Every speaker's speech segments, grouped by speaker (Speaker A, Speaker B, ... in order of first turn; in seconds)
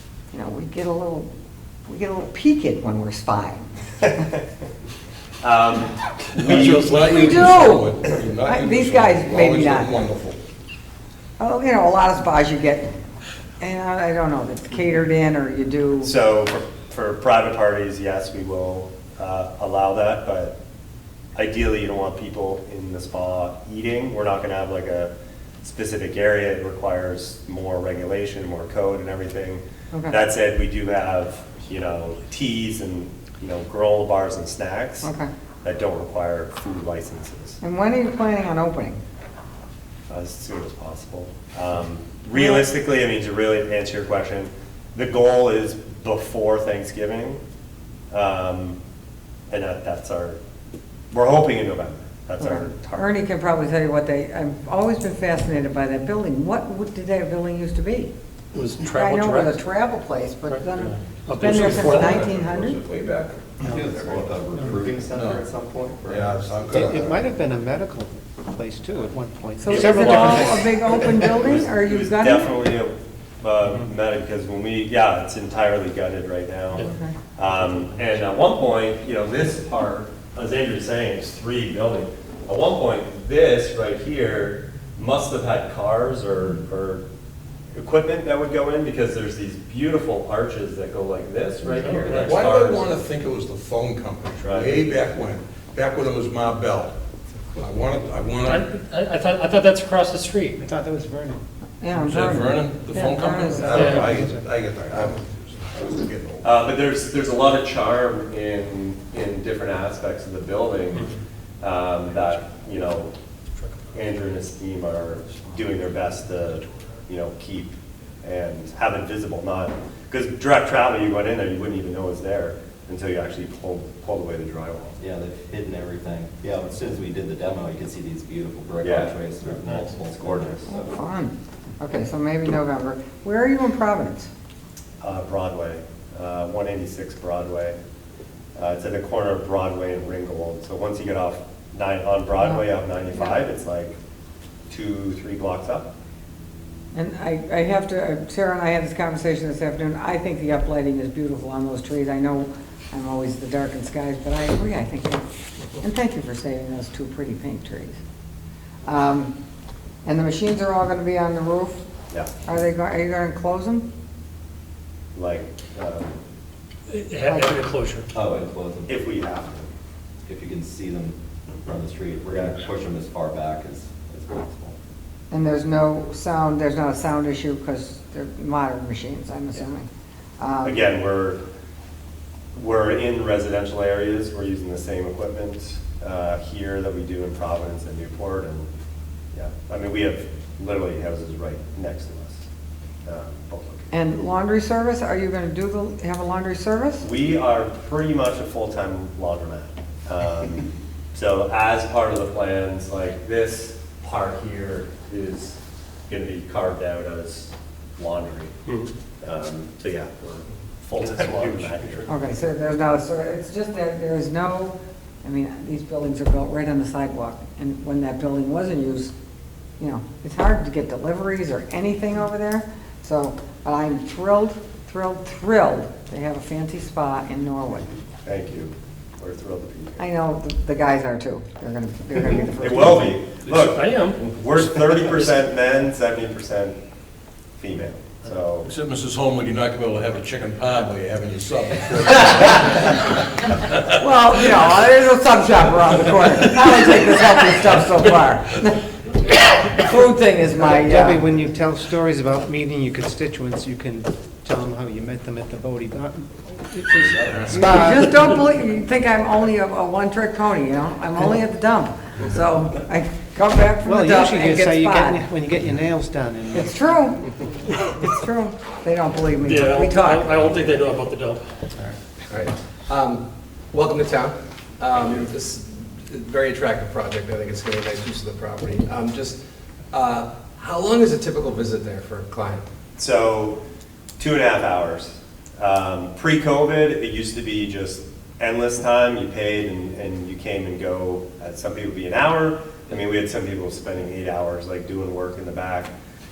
Speaker A: 0.3-1.3, 1.9-3.7, 6.6-10.0, 11.4-12.9, 13.6-16.1, 29.9-30.2, 35.0-35.3, 37.6-39.0, 42.3-42.6, 52.4-58.1, 58.9-62.8, 69.6-72.5, 76.8-77.1, 101.8-104.1, 130.7-134.3, 146.9-155.3, 155.8-158.0, 158.8-159.3, 160.0-161.8, 162.4-163.8, 167.2-167.6, 175.3-179.9, 180.4-180.8, 193.9-197.0, 212.1-219.1, 219.8-227.9, 230.0-233.2, 244.0-251.2, 257.5-265.2, 266.5-270.6
Speaker B: 5.4-6.9, 16.0-20.6, 21.4-25.1, 25.6-35.1, 35.6-37.6, 40.1-47.4, 48.1-48.8, 49.5-50.4, 51.1-53.1, 69.7-87.0, 87.7-92.9, 94.4-94.8, 106.4-111.1, 111.6-113.1, 113.9-125.0, 128.8-130.6, 135.0-137.8, 138.6-143.9, 144.7-145.9, 165.1-166.2, 168.9-169.7, 180.6-181.4, 182.5-188.7, 189.3-192.5, 193.1-193.9, 197.0-205.6, 206.1-208.5, 209.2-212.1, 228.2-230.0, 232.6-236.8, 237.6-238.7, 283.0-283.6, 284.2-295.9
Speaker C: 6.4-10.4, 61.4-64.2, 65.1-65.5, 66.0-67.2, 92.1-97.0, 97.5-98.7, 101.9-106.5, 238.6-243.6, 257.2-257.7
Speaker D: 58.5-59.5, 60.5-62.2, 91.7-92.3, 98.4-100.6, 103.7-104.1, 166.9-168.1, 211.0-212.1, 233.6-234.2, 269.4-271.5
Speaker E: 63.6-66.8, 125.0-130.9, 168.1-169.0, 170.2-174.8, 257.0-257.3
Speaker F: 66.7-70.7, 100.6-101.4, 103.7-104.5, 250.7-258.1, 263.8-266.7
Speaker G: 272.3-279.4, 279.9-282.7